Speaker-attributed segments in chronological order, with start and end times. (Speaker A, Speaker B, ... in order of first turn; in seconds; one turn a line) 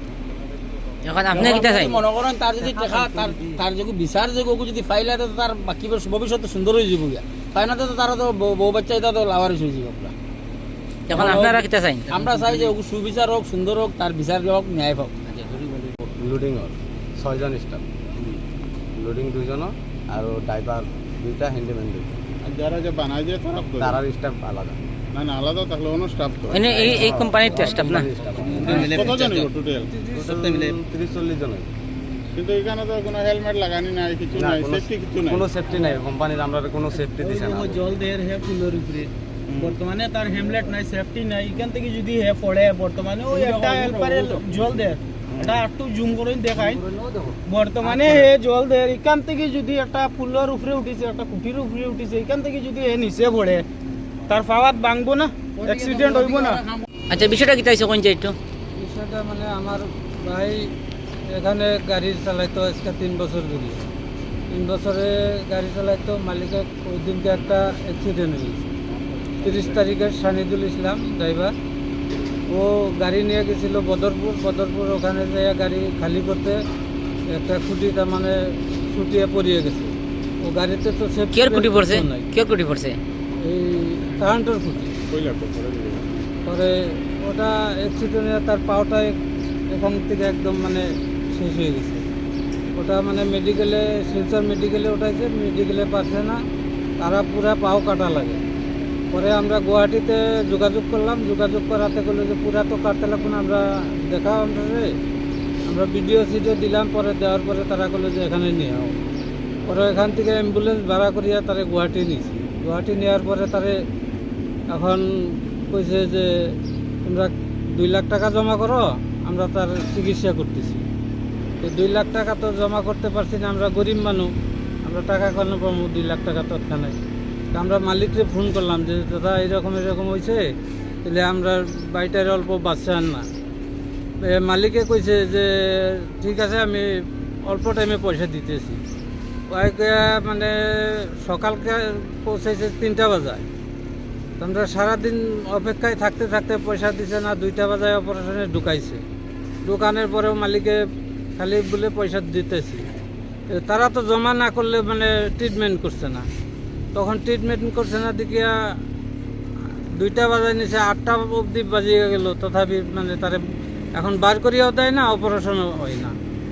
Speaker A: 1.0-2.0
Speaker B: 1.3-10.1
Speaker C: 2.6-3.6
Speaker A: 11.1-12.7
Speaker B: 11.1-15.7
Speaker C: 16.2-18.4
Speaker C: 19.0-22.1
Speaker D: 22.4-24.0
Speaker C: 23.7-24.8
Speaker D: 25.1-27.5
Speaker A: 26.5-28.1
Speaker C: 26.6-29.1
Speaker D: 28.4-29.9
Speaker A: 28.7-29.2
Speaker C: 30.1-31.7
Speaker E: 30.2-30.7
Speaker D: 32.4-35.5
Speaker C: 34.3-37.8
Speaker E: 37.2-46.8
Speaker D: 39.5-39.8
Speaker B: 43.3-44.3
Speaker D: 45.4-45.6
Speaker E: 47.5-53.6
Speaker E: 54.3-56.6
Speaker B: 55.6-56.5
Speaker A: 57.1-58.4
Speaker F: 58.8-60.7
Speaker F: 61.3-63.8
Speaker F: 64.5-68.7
Speaker F: 69.4-71.5
Speaker F: 72.5-76.6
Speaker F: 77.3-82.3
Speaker A: 81.3-83.0
Speaker F: 83.4-84.9
Speaker D: 85.1-86.1
Speaker F: 86.5-89.2
Speaker F: 89.7-92.0
Speaker F: 92.8-96.4
Speaker F: 97.0-98.4
Speaker F: 99.1-104.9
Speaker F: 105.7-109.0
Speaker F: 109.7-113.8
Speaker F: 114.7-120.8
Speaker F: 121.6-124.3
Speaker F: 124.8-127.0
Speaker F: 127.5-130.4
Speaker F: 131.0-133.3
Speaker F: 134.2-138.8
Speaker F: 139.5-143.5
Speaker F: 144.4-149.0
Speaker F: 149.7-150.8
Speaker F: 151.4-152.9
Speaker F: 153.5-156.3
Speaker F: 156.9-158.5
Speaker F: 159.9-163.4
Speaker F: 163.9-166.1